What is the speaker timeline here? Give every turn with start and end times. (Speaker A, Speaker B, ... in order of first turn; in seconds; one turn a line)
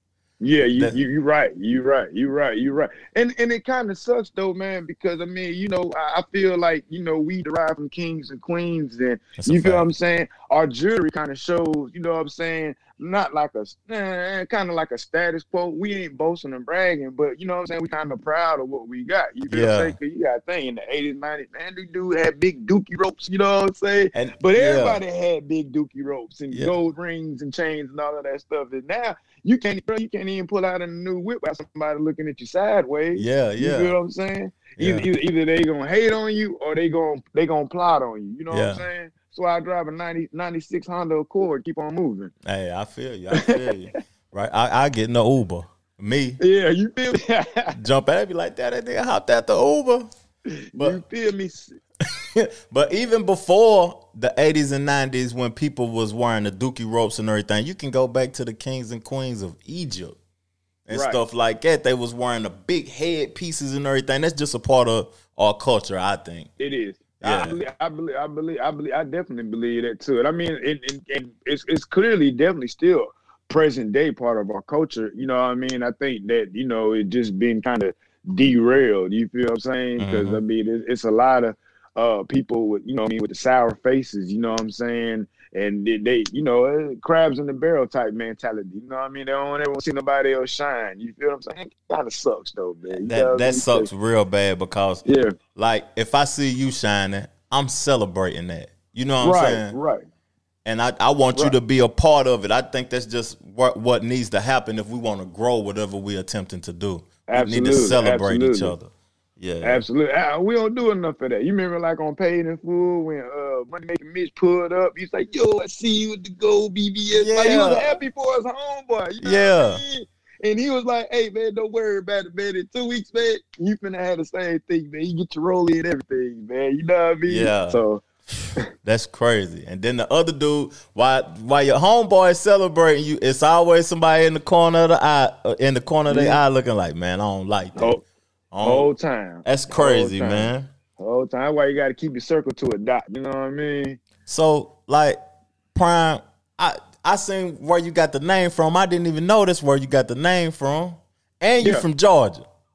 Speaker A: 0.4-42.3
Speaker B: 0.7-1.0
Speaker B: 9.4-9.9
Speaker B: 19.5-19.9
Speaker B: 24.1-25.0
Speaker B: 33.1-33.9
Speaker B: 34.8-35.1
Speaker B: 38.5-38.8
Speaker B: 42.4-46.4
Speaker A: 43.3-43.6
Speaker A: 46.4-47.8
Speaker B: 47.7-50.1
Speaker A: 50.7-51.8
Speaker B: 52.0-60.2
Speaker B: 60.9-66.5
Speaker A: 60.9-61.2
Speaker A: 66.6-93.9
Speaker B: 67.2-67.6
Speaker B: 80.0-80.4
Speaker B: 92.9-99.7
Speaker A: 95.0-95.3
Speaker A: 99.2-100.0
Speaker B: 100.6-109.8
Speaker A: 107.3-108.8
Speaker A: 109.6-128.0
Speaker B: 117.2-117.8
Speaker B: 119.2-119.8
Speaker B: 127.2-127.8
Speaker B: 128.3-137.9
Speaker A: 136.1-136.4
Speaker A: 137.8-138.0
Speaker B: 138.5-138.9
Speaker A: 138.6-144.0
Speaker B: 139.4-140.7
Speaker B: 144.2-145.2
Speaker B: 145.7-152.4
Speaker A: 151.6-151.8